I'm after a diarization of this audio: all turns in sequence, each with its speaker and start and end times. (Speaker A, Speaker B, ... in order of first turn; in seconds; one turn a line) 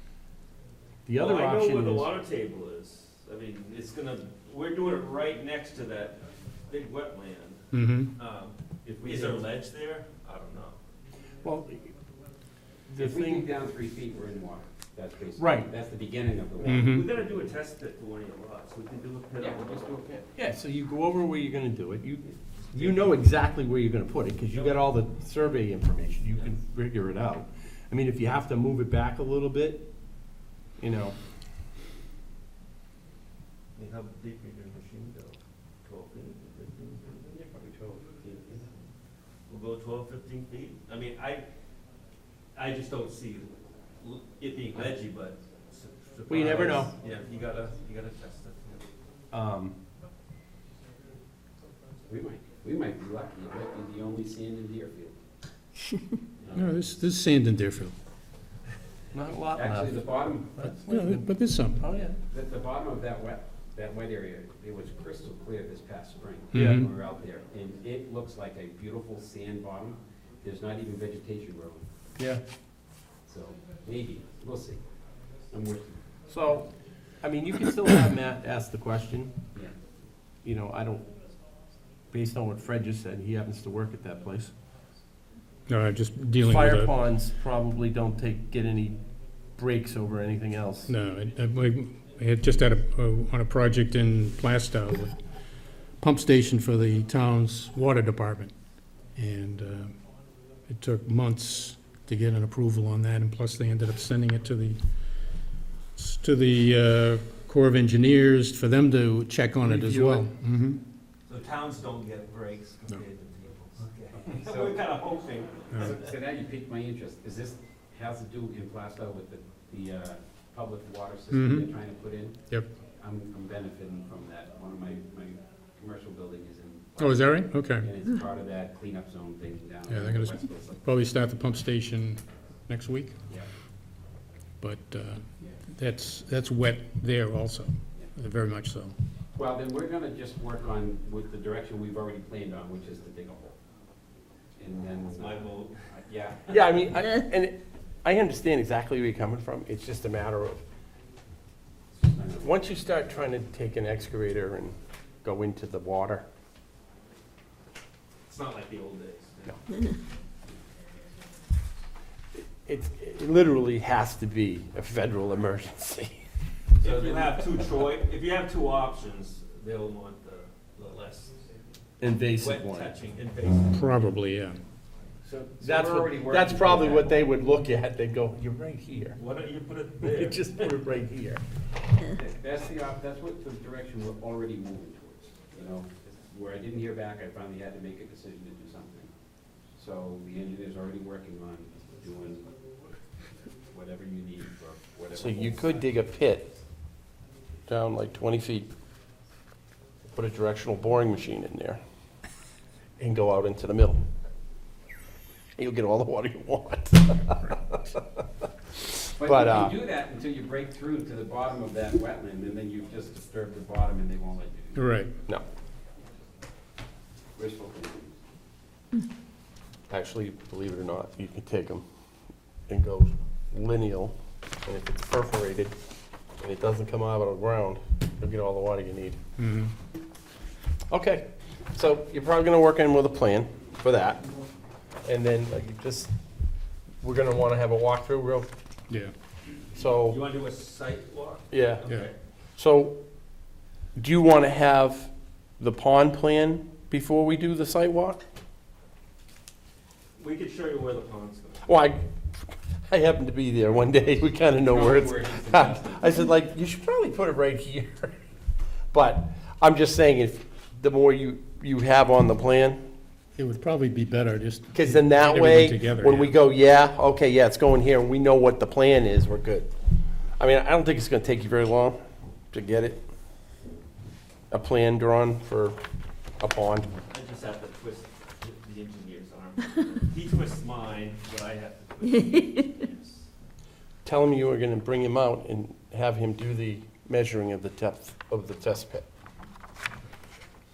Speaker A: 1.1-2.1
Speaker B: 1.2-10.8
Speaker C: 7.7-8.1
Speaker D: 9.0-9.4
Speaker A: 11.4-11.9
Speaker A: 12.9-13.5
Speaker D: 13.0-17.5
Speaker A: 15.4-15.7
Speaker C: 16.6-17.1
Speaker B: 16.8-20.2
Speaker D: 19.4-20.2
Speaker A: 20.4-29.9
Speaker B: 22.6-23.3
Speaker B: 24.5-24.9
Speaker A: 30.8-31.2
Speaker B: 33.8-37.3
Speaker D: 37.3-38.7
Speaker B: 39.5-41.5
Speaker B: 42.5-48.9
Speaker A: 46.3-46.9
Speaker A: 49.3-49.8
Speaker D: 52.1-55.2
Speaker D: 56.4-57.0
Speaker C: 56.5-58.0
Speaker A: 59.1-62.2
Speaker D: 59.5-60.8
Speaker C: 60.6-61.8
Speaker D: 62.1-71.9
Speaker C: 66.5-66.9
Speaker A: 66.5-66.9
Speaker D: 73.2-76.0
Speaker A: 76.3-76.7
Speaker A: 77.2-79.3
Speaker A: 80.4-81.1
Speaker A: 82.1-84.5
Speaker C: 85.7-86.9
Speaker A: 86.4-89.0
Speaker A: 89.5-90.9
Speaker C: 90.9-95.2
Speaker C: 96.0-100.1
Speaker C: 100.7-105.3
Speaker C: 106.0-110.8
Speaker A: 109.6-110.3
Speaker B: 111.3-116.1
Speaker D: 114.1-114.9
Speaker D: 115.7-122.4
Speaker C: 121.3-121.7
Speaker D: 123.0-130.8
Speaker C: 127.0-127.9
Speaker C: 129.9-133.2
Speaker C: 134.6-139.0
Speaker D: 139.3-143.6
Speaker D: 144.6-146.8
Speaker B: 145.2-145.9
Speaker A: 146.5-150.6
Speaker D: 151.9-152.7
Speaker A: 152.4-156.3
Speaker B: 158.3-159.8
Speaker A: 162.4-166.2
Speaker B: 166.8-171.4
Speaker D: 166.8-167.2
Speaker A: 172.0-172.9
Speaker B: 172.3-174.2
Speaker C: 173.7-174.6
Speaker B: 175.2-175.6
Speaker D: 175.6-177.2
Speaker A: 175.6-179.2
Speaker B: 179.2-180.8
Speaker A: 180.0-181.4
Speaker D: 182.1-189.1
Speaker D: 189.7-192.5
Speaker D: 193.7-195.9
Speaker A: 195.2-196.5
Speaker A: 197.7-198.7
Speaker A: 200.1-201.8
Speaker A: 203.0-204.0
Speaker A: 205.6-208.0
Speaker A: 209.1-209.8
Speaker D: 209.2-214.9
Speaker C: 214.8-215.1
Speaker D: 217.3-218.2
Speaker A: 219.9-221.8
Speaker A: 222.7-225.8
Speaker A: 226.4-229.2
Speaker C: 229.4-229.7
Speaker A: 230.9-234.2
Speaker A: 235.0-236.1
Speaker A: 237.0-238.5
Speaker A: 239.8-240.2
Speaker B: 239.8-242.2
Speaker A: 241.5-241.8
Speaker A: 242.6-243.0
Speaker A: 243.9-248.2
Speaker B: 250.2-251.7
Speaker A: 251.6-258.2
Speaker D: 254.5-256.1
Speaker A: 258.9-262.8
Speaker C: 263.4-266.4
Speaker A: 264.7-269.7
Speaker A: 270.4-272.0
Speaker A: 272.5-273.0
Speaker A: 274.5-275.8
Speaker A: 276.4-276.9
Speaker B: 277.1-283.3
Speaker A: 284.1-289.1